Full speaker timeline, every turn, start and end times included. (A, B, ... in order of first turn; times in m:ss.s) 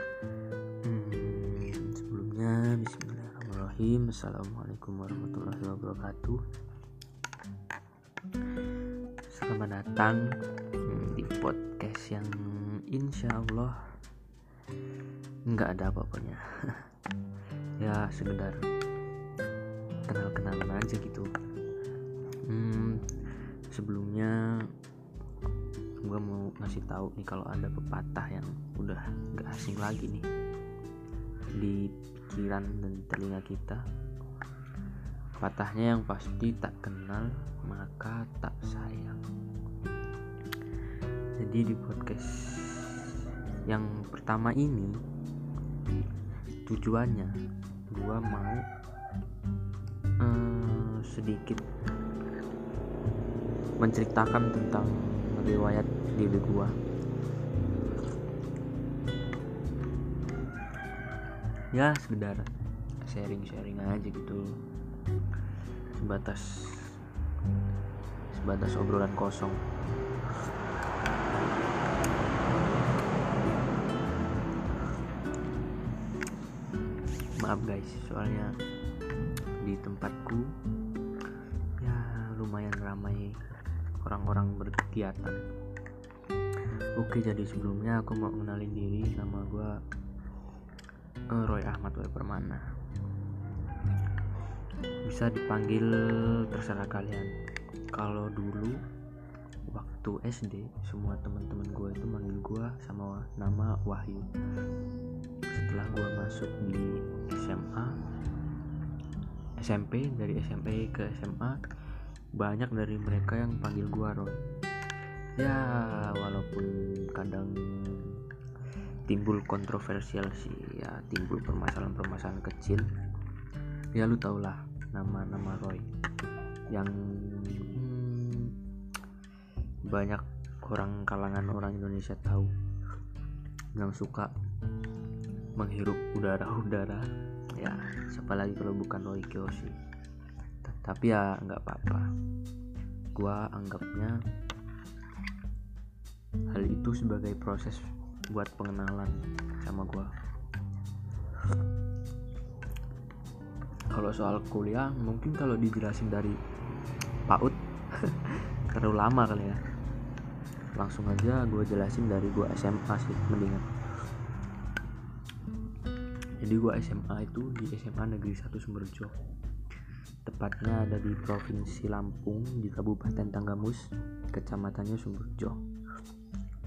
0:00.8-0:06.4 A
0:09.3-0:10.3 A
0:10.8-0:13.9 A
0:15.5-0:16.9 A
0:17.8-0:18.6 A
0:20.1-0:21.3 A
0:22.5-0:23.0 A
0:23.7-0:24.7 A
0:26.0-0:30.3 A
0:31.6-0:33.8 A
0:35.4-0:39.2 A
0:41.4-0:45.0 A
0:46.7-0:47.4 A
0:47.9-0:48.6 A
0:50.2-0:51.6 A
0:53.8-0:56.8 A
1:01.7-1:02.5 A
1:03.0-1:04.6 A
1:05.9-1:07.0 A
1:08.3-1:09.6 A
1:17.4-1:18.5 A
1:19.6-1:20.5 A
1:21.8-1:23.4 A
1:24.0-1:25.4 A
1:27.0-1:29.8 A
1:31.3-1:32.6 A
1:35.0-1:37.3 A
1:37.9-1:38.8 A
1:39.7-1:44.3 A
1:45.5-1:48.0 A
1:49.6-1:51.6 A
1:52.4-1:54.4 A
1:55.4-1:58.2 A
1:59.1-2:02.9 A
2:04.0-2:05.8 A
2:06.7-2:08.5 A
2:09.9-2:12.5 A
2:13.8-2:14.3 A
2:15.6-2:17.1 A
2:17.6-2:19.8 A
2:20.6-2:22.1 A
2:23.2-2:24.2 A
2:26.5-2:30.1 A
2:33.9-2:36.4 A
2:37.3-2:39.6 A
2:40.8-2:43.7 A
2:46.4-2:49.1 A
2:50.3-2:55.6 A